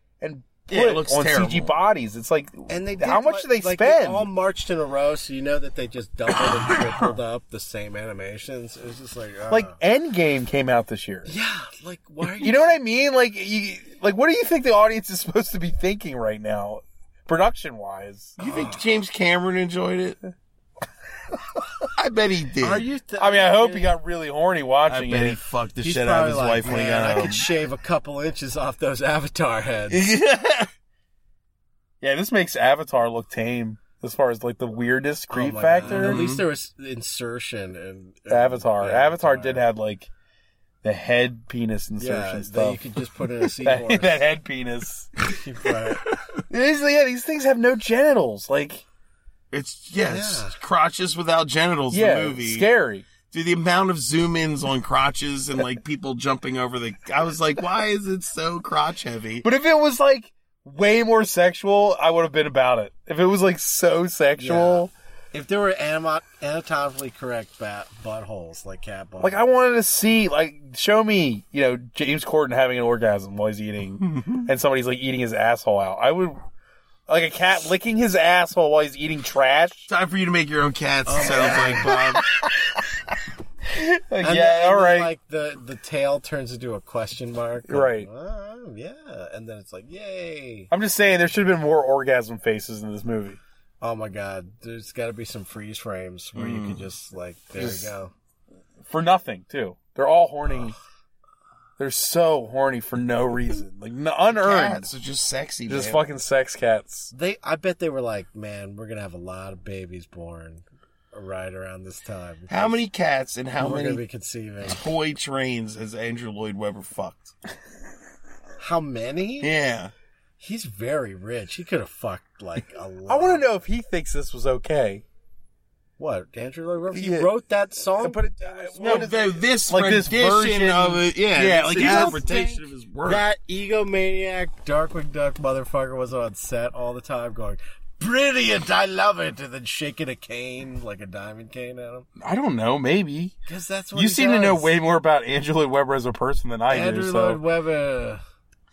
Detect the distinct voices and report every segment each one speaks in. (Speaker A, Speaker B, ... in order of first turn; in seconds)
Speaker A: 0.2-4.2, 9.5-11.3, 12.4-18.4, 23.1-25.4, 32.0-36.3, 38.3-40.1, 40.8-42.8, 43.6-45.1, 46.5-48.8, 51.9-53.0, 59.4-64.9, 69.2-76.4, 77.1-79.9, 81.2-81.8, 83.7-85.1, 87.7-88.1, 90.7-93.4, 97.5-97.9, 98.8-100.8, 101.8-104.9, 105.7-107.1, 123.1-125.0, 128.0-132.6, 142.2-143.3, 143.9-147.4
Speaker B: 0.7-1.7, 18.4-20.2, 21.9-22.8, 24.9-27.4, 29.9-30.7, 35.8-36.4, 49.5-52.7, 53.3-59.4, 74.1-74.4, 79.9-82.2, 96.3-96.8, 104.3-106.0, 112.5-114.0, 114.6-117.3, 119.4-119.9, 128.8-133.2
Speaker C: 2.7-9.8, 11.3-12.8, 22.6-23.9, 25.8-30.1, 35.3-39.6, 42.0-44.2, 45.4-46.0, 50.0-50.5, 64.4-69.4, 81.0-82.2, 84.2-90.7, 93.8-98.1, 107.1-112.8, 113.6-114.8, 118.6-119.5, 120.4-123.6, 126.0-129.1, 131.8-132.4, 133.0-142.1, 143.4-144.8, 146.7-148.2